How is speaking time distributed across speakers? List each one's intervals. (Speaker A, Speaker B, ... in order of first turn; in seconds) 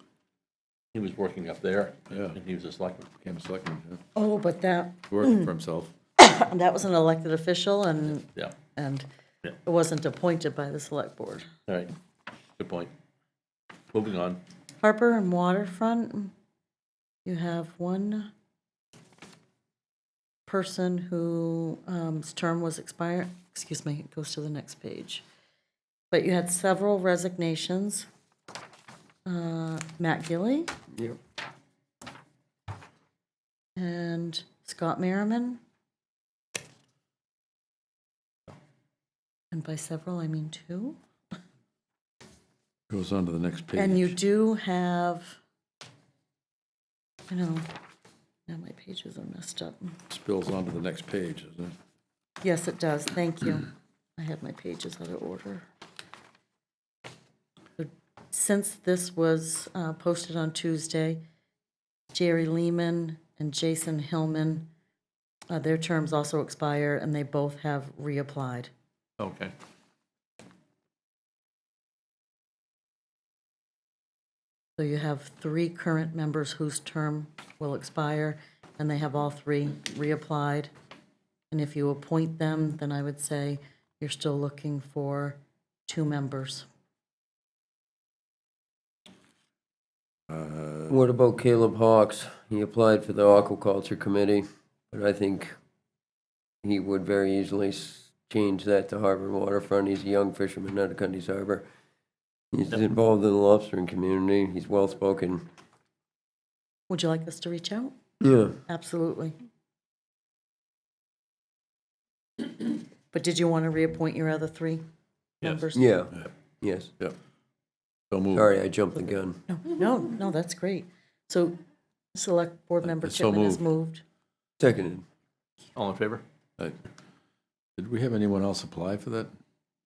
Speaker A: 0.9-3.1, 11.7-11.9, 12.6-12.9, 13.9-14.4, 69.2-69.5, 125.7-126.2
Speaker B: 2.1-2.4, 3.2-4.0, 5.1-5.9, 42.9-44.1, 50.1-51.8, 90.3-91.0, 118.1-118.5, 122.8-123.7, 127.8-129.3
Speaker C: 4.1-5.5, 6.2-9.1, 9.6-11.5, 14.8-16.3, 17.2-18.3, 20.5-25.2, 26.1-28.1, 29.2-30.7, 33.8-35.6, 39.5-41.0, 43.8-45.4, 47.3-47.7, 48.5-50.0, 52.4-55.6, 57.8-61.2, 62.1-64.7, 65.5-68.7, 74.8-80.7, 81.5-86.7, 106.9-107.9, 108.7-109.3, 112.6-114.8, 115.4-116.0, 119.5-121.6, 122.1-124.0
Speaker D: 30.9-31.2, 90.9-95.5, 96.6-101.6, 102.5-105.4, 108.2-108.6, 115.7-116.9, 118.3-119.4, 124.6-125.0